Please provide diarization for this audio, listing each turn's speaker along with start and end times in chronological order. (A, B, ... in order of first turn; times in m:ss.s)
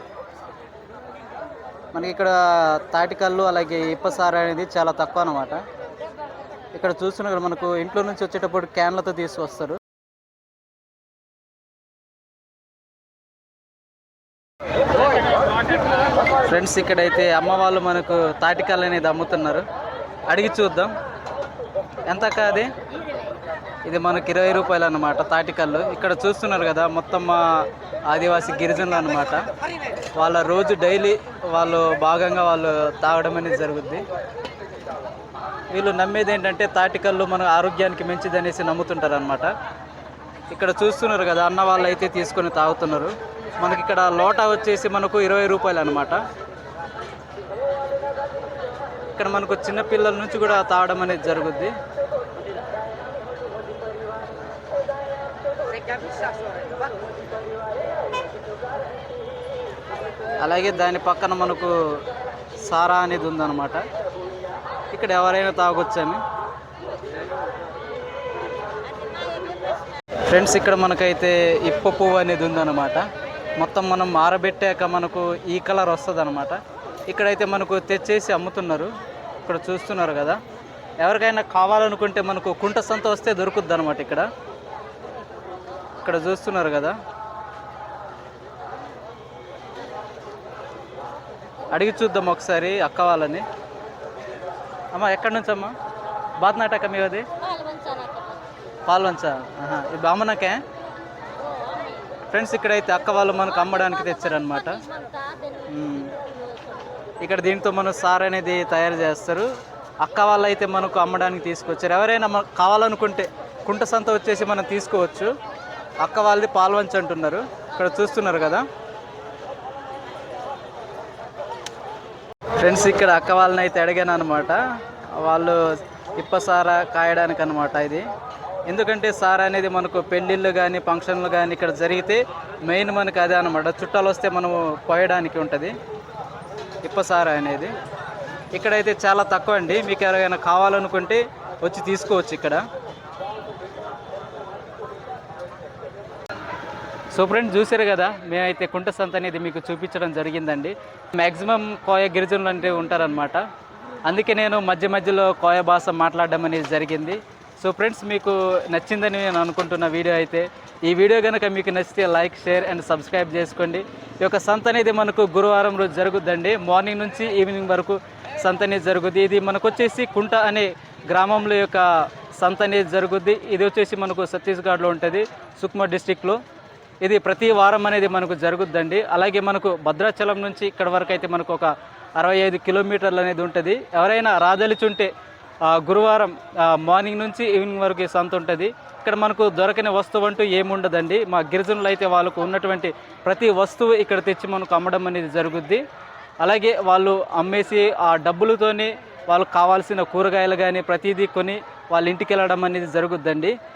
0:01.9-0:05.6 A
0:06.7-0:09.8 A
0:16.4-0:19.6 A
0:20.3-0:20.9 A
0:22.1-0:22.7 A
0:23.8-0:27.4 A
0:28.1-0:29.4 A
0:30.2-0:34.0 A
0:35.7-0:39.5 A
0:40.5-0:46.2 A
0:49.1-0:51.7 A
1:00.4-1:01.7 A
1:02.6-1:03.8 A
1:04.9-1:06.2 A
1:10.3-1:13.1 A
1:13.6-1:18.9 A
1:19.4-1:20.4 A
1:21.0-1:24.3 A
1:26.0-1:26.9 A
1:31.7-1:33.4 A
1:34.9-1:35.7 A
1:36.4-1:37.3 A
1:38.9-1:40.6 A
1:42.3-1:44.8 A
1:45.7-1:46.1 A
1:47.2-1:49.5 A
1:50.0-1:55.3 A
1:56.0-1:58.6 A
2:02.6-2:04.6 A
2:05.1-2:05.6 A
2:06.2-2:08.0 A
2:08.7-2:15.7 A
2:16.8-2:17.7 A
2:18.5-2:22.6 A
2:27.1-2:33.4 A
2:34.0-2:51.8 A
2:52.4-2:56.4 A
2:57.0-3:05.1 A
3:05.7-3:15.8 A
3:16.4-3:23.5 A